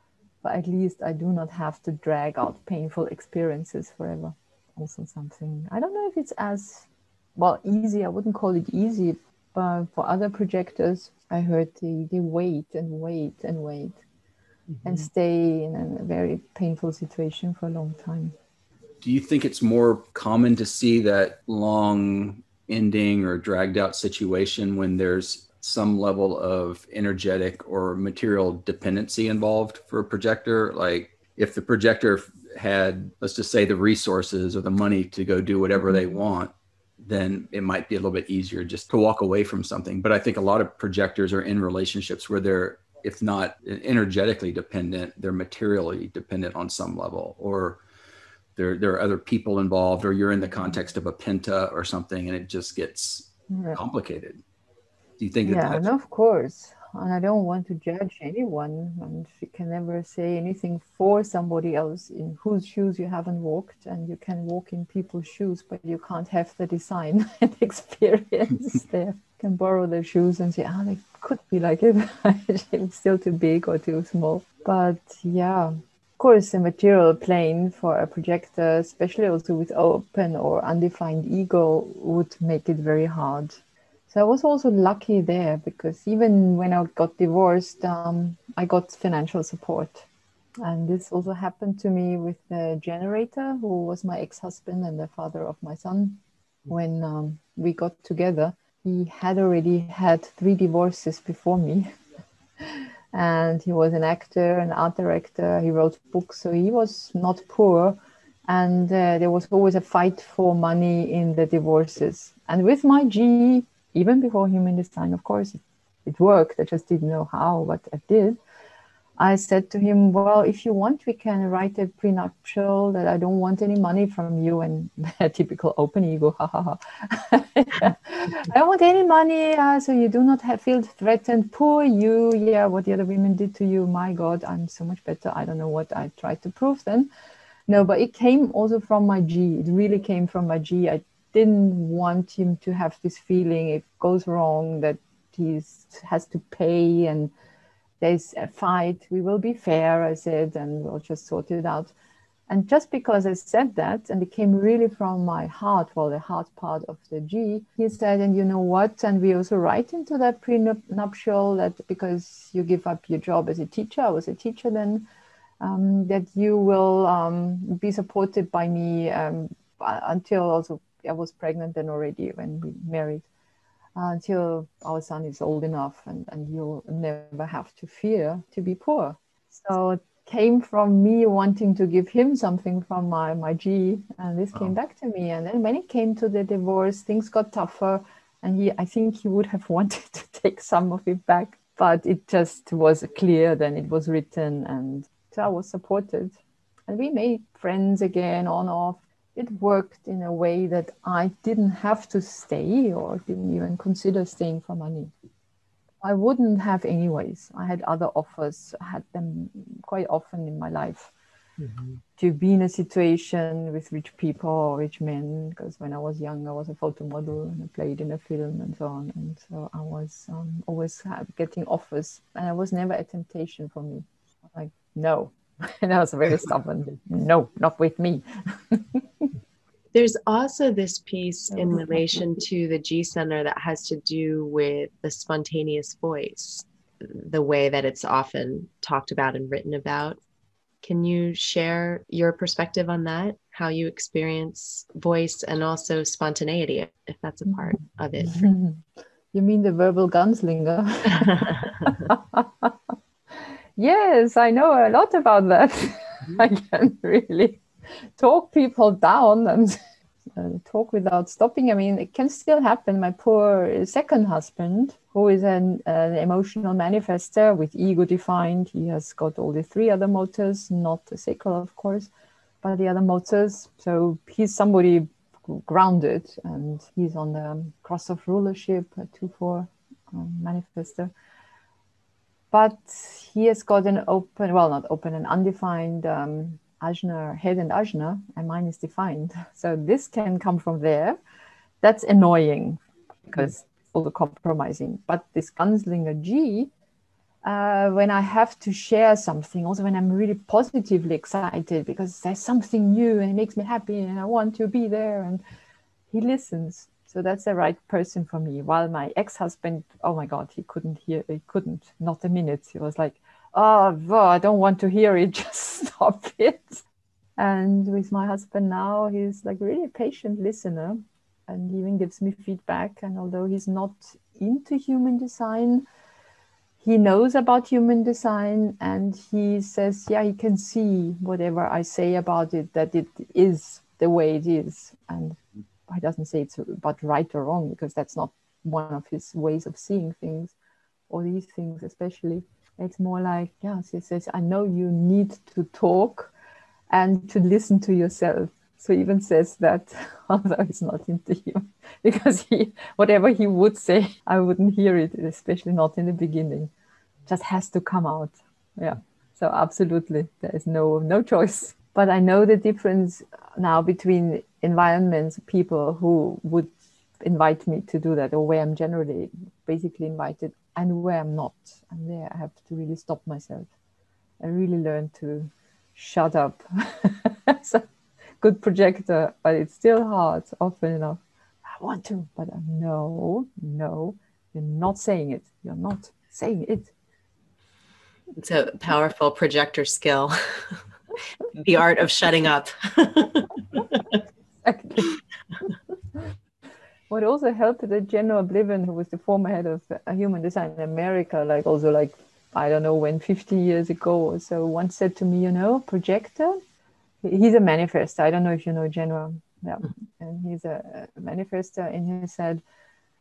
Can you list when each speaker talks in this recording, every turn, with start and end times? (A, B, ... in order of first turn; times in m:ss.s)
0:00.4-0:14.0 A
0:14.7-0:15.0 B
0:14.8-0:18.3 A
0:19.0-0:47.8 C
0:35.8-0:36.1 A
0:48.6-0:54.4 C
0:53.5-0:53.8 A
0:55.2-0:55.9 C
0:55.4-1:30.0 A
1:30.6-1:41.9 A
1:42.6-1:58.4 A
1:59.2-2:17.1 A
2:17.7-2:27.3 A
2:28.0-2:31.9 A
2:32.5-2:45.0 A
2:45.6-2:53.2 A
2:54.0-3:16.4 A
3:16.9-3:25.1 A
3:26.0-3:31.1 A
3:31.6-3:32.0 B
3:32.2-3:49.3 A
3:49.9-4:00.2 B
3:51.5-3:52.2 A
4:00.8-4:08.4 B
4:08.2-4:12.7 A
4:11.2-4:11.9 B
4:13.8-4:19.8 A
4:20.4-4:32.1 A
4:32.6-4:41.1 A
4:42.5-4:51.2 A
4:51.8-4:56.7 A
4:57.4-5:05.4 A
5:06.1-5:16.8 A
5:17.4-5:25.8 A
5:26.8-5:40.5 A
5:41.1-5:46.3 A
5:46.9-5:56.7 A
5:57.3-6:13.7 A
6:14.4-6:17.8 A
6:18.4-6:26.9 A
6:28.4-6:30.8 B
6:31.5-6:34.0 B
6:34.6-6:35.0 A
6:37.1-6:46.6 A
6:47.2-6:52.6 A